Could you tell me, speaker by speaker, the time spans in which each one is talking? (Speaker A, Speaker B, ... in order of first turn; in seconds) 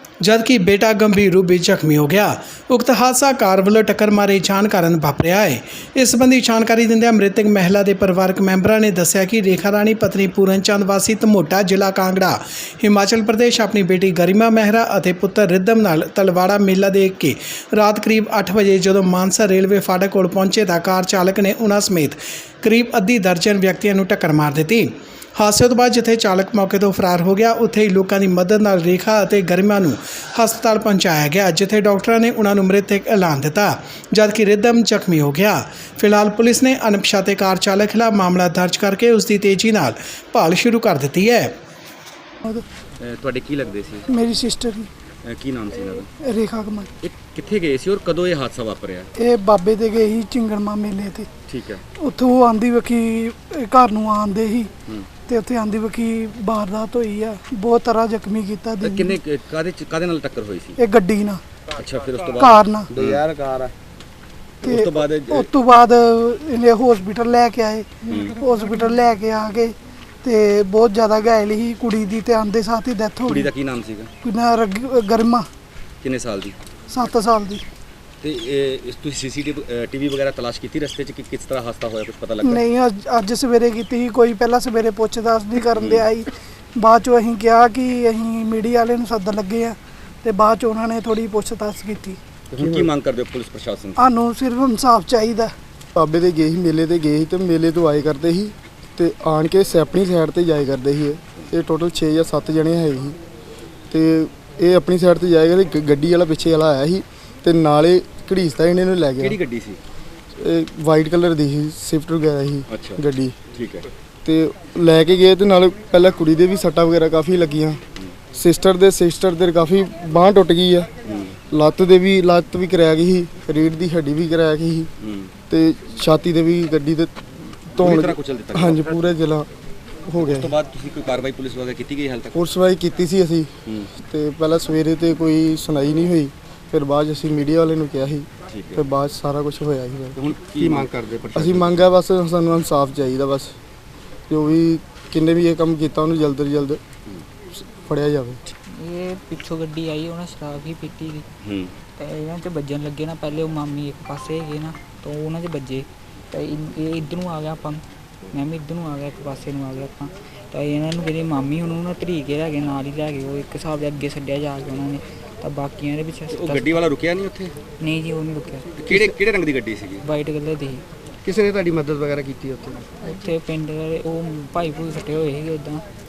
Speaker A: 0.2-41.5
Speaker B: 43.0-44.1, 45.2-46.1, 47.0-49.1, 51.5-51.8, 58.8-60.8, 61.8-63.7, 64.6-65.5, 68.1-68.4, 73.2-74.1, 76.0-76.6, 78.2-82.6, 85.8-86.1, 92.5-94.0, 109.2-109.8, 112.7-113.9, 121.0-121.3, 125.0-125.3, 127.8-128.9, 130.2-132.4, 138.5-138.8, 140.2-141.9, 151.4-151.7, 166.3-167.5, 168.8-170.1, 171.2-172.9
Speaker C: 44.1-44.9, 46.2-46.9, 49.1-51.3, 52.0-54.7, 55.2-59.2, 60.8-61.4, 62.4-62.9, 64.6-73.5, 74.2-75.5, 76.9-77.7, 82.4-92.2, 94.0-95.5
Speaker D: 92.5-92.9, 95.9-103.2, 103.9-109.4, 110.4-113.4, 114.2-117.8, 118.3-120.9, 121.5-124.9, 125.5-127.2, 127.8-129.5, 130.1-130.6, 132.3-143.6, 144.3-146.8, 147.6-148.4
Speaker E: 148.7-151.2, 152.0-166.8, 167.8-169.1, 170.0-170.8, 173.0-175.8